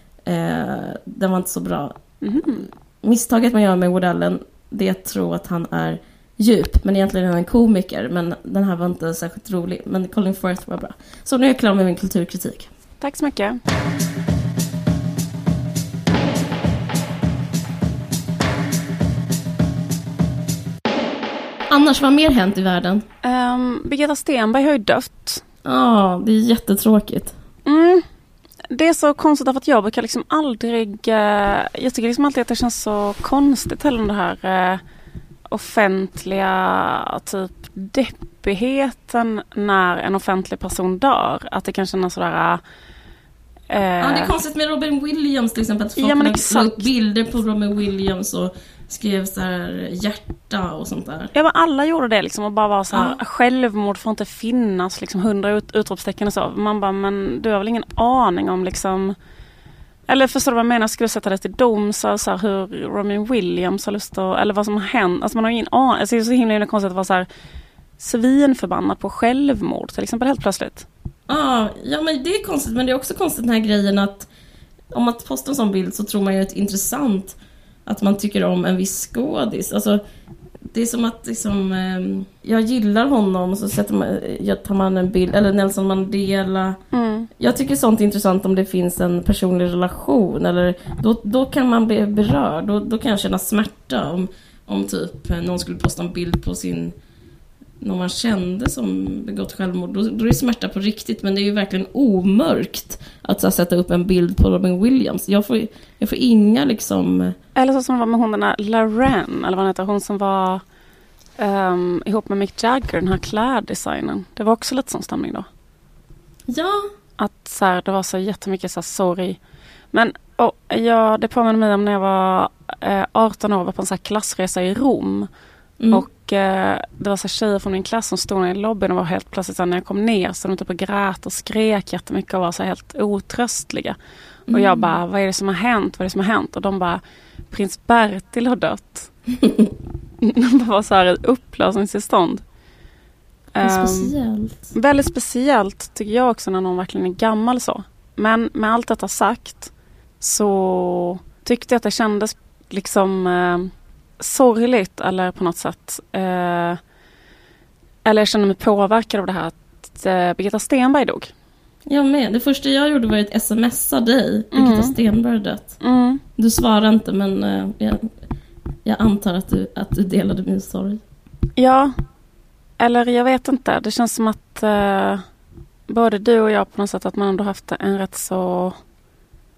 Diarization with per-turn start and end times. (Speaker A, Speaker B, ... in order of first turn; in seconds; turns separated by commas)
Speaker A: 0.2-12.7, Speaker B: 2.2-2.6, Speaker B: 13.0-13.6, Speaker A: 21.7-23.0, Speaker B: 23.2-25.4, Speaker A: 25.6-27.3, Speaker B: 27.6-28.0, Speaker B: 28.7-34.8, Speaker B: 35.5-42.6, Speaker B: 43.7-44.3, Speaker A: 44.0-51.3, Speaker B: 46.0-46.9, Speaker B: 51.3-59.1, Speaker B: 60.1-67.3, Speaker B: 68.0-70.9, Speaker A: 71.3-74.3, Speaker A: 74.9-80.0, Speaker A: 80.7-86.8, Speaker B: 86.9-87.3, Speaker A: 87.4-96.9, Speaker A: 97.8-107.3, Speaker B: 107.5-110.6, Speaker B: 111.4-115.5, Speaker A: 116.5-116.9, Speaker B: 117.2-119.4, Speaker B: 119.9-125.3, Speaker A: 125.8-126.0, Speaker B: 125.9-134.0, Speaker A: 134.5-134.9, Speaker B: 134.5-139.1, Speaker A: 139.4-139.7, Speaker B: 140.2-142.4, Speaker B: 143.5-144.1, Speaker A: 143.6-144.7, Speaker B: 144.7-156.8, Speaker B: 158.1-161.3, Speaker A: 161.9-165.8, Speaker B: 164.5-164.9, Speaker B: 165.8-166.2, Speaker A: 166.4-168.1, Speaker A: 168.8-171.0, Speaker B: 171.6-171.9, Speaker B: 172.8-175.2, Speaker B: 175.9-178.8